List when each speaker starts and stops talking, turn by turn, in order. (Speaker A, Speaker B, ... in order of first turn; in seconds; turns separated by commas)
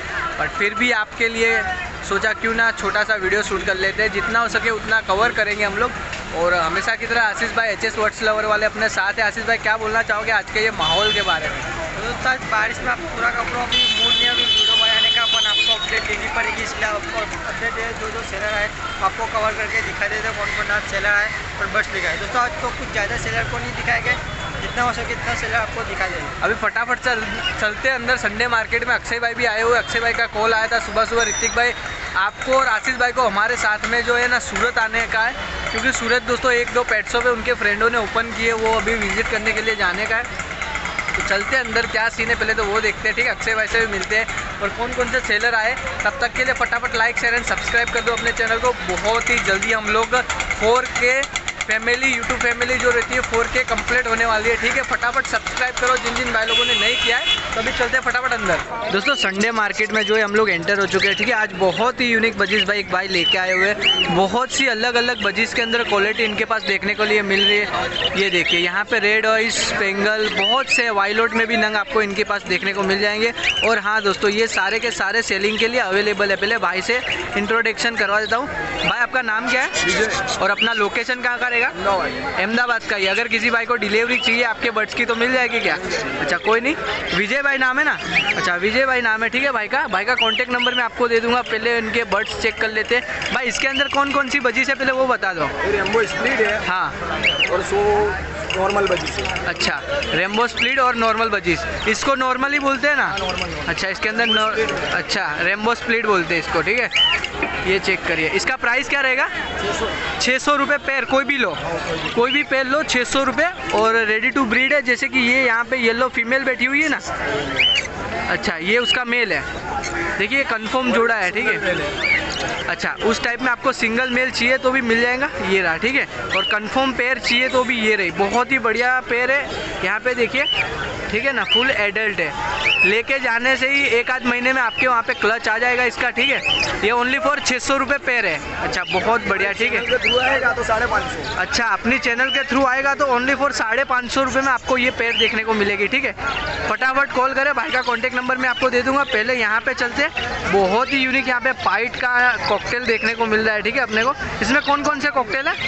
Speaker A: 0.4-11.6, Speaker B: 11.9-26.4, Speaker A: 26.4-40.3, Speaker A: 41.1-81.7, Speaker A: 82.3-95.5, Speaker C: 95.6-96.6, Speaker A: 96.6-97.0, Speaker C: 97.4-99.3, Speaker A: 99.4-106.9, Speaker A: 107.6-109.3, Speaker A: 110.2-111.6, Speaker A: 112.1-117.0, Speaker A: 118.3-119.5, Speaker A: 120.2-121.8, Speaker A: 122.7-130.5, Speaker A: 131.1-139.9, Speaker C: 139.4-141.3, Speaker A: 141.3-155.6